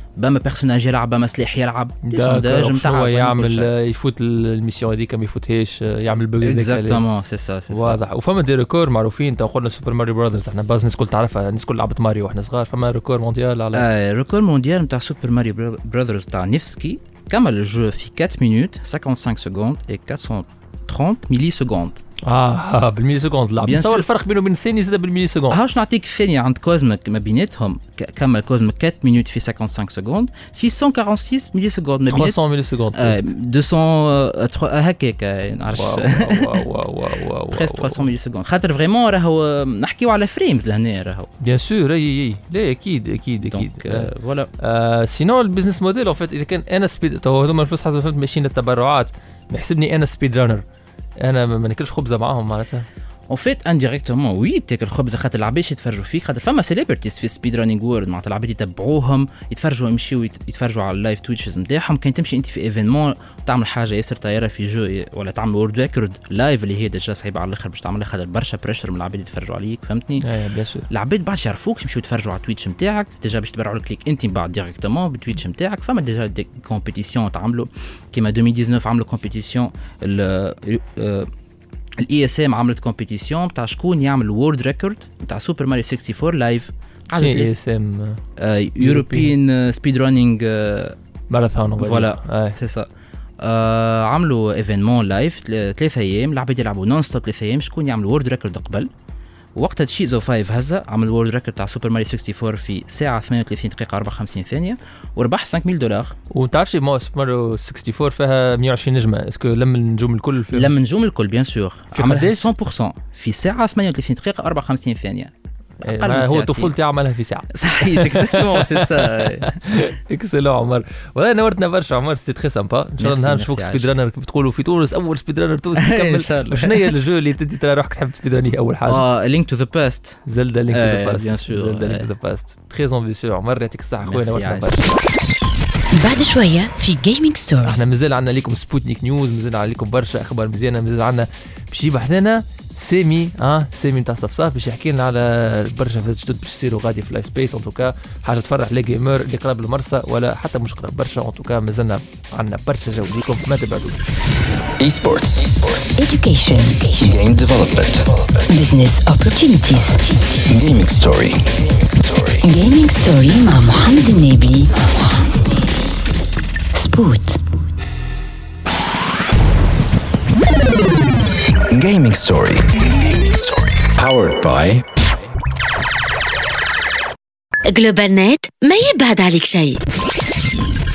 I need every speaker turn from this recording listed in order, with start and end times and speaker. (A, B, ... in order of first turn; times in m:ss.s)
0:00.2-0:03.7 A
0:02.1-0:07.0 B
0:06.4-0:08.0 A
0:07.7-0:13.8 B
0:13.7-0:22.0 A
0:22.2-0:25.6 B
0:23.6-0:24.1 A
0:25.5-0:32.4 A
0:32.1-0:33.2 B
0:33.0-0:36.7 A
0:35.7-0:38.1 B
0:37.5-0:41.3 A
0:41.4-0:44.1 B
0:43.5-0:44.5 A
0:44.6-0:50.6 B
0:51.2-0:52.9 B
0:53.3-1:10.2 A
1:10.2-1:10.9 B
1:10.9-1:21.3 A
1:22.0-1:27.5 A
1:27.1-1:28.2 B
1:28.4-1:31.0 A
1:28.8-1:29.3 B
1:31.3-1:32.6 B
1:31.8-1:32.9 A
1:33.4-1:38.9 A
1:39.6-1:46.2 A
1:46.3-1:50.7 B
1:50.5-1:55.3 A
1:52.0-1:52.5 B
1:55.8-1:56.7 A
1:55.8-2:09.0 B
1:57.5-1:59.5 A
2:03.0-2:03.9 A
2:05.8-2:06.9 A
2:08.9-2:12.1 A
2:10.2-2:14.9 B
2:14.0-2:14.7 A
2:15.9-2:17.8 C
2:17.6-2:34.0 B
2:34.8-2:36.0 D
2:36.0-2:36.9 C
2:37.0-2:38.3 D
2:38.5-2:40.0 C
2:40.4-2:42.4 D
2:42.4-2:44.7 C
2:46.7-2:47.4 C
2:51.7-2:54.8 D
2:57.7-2:59.8 E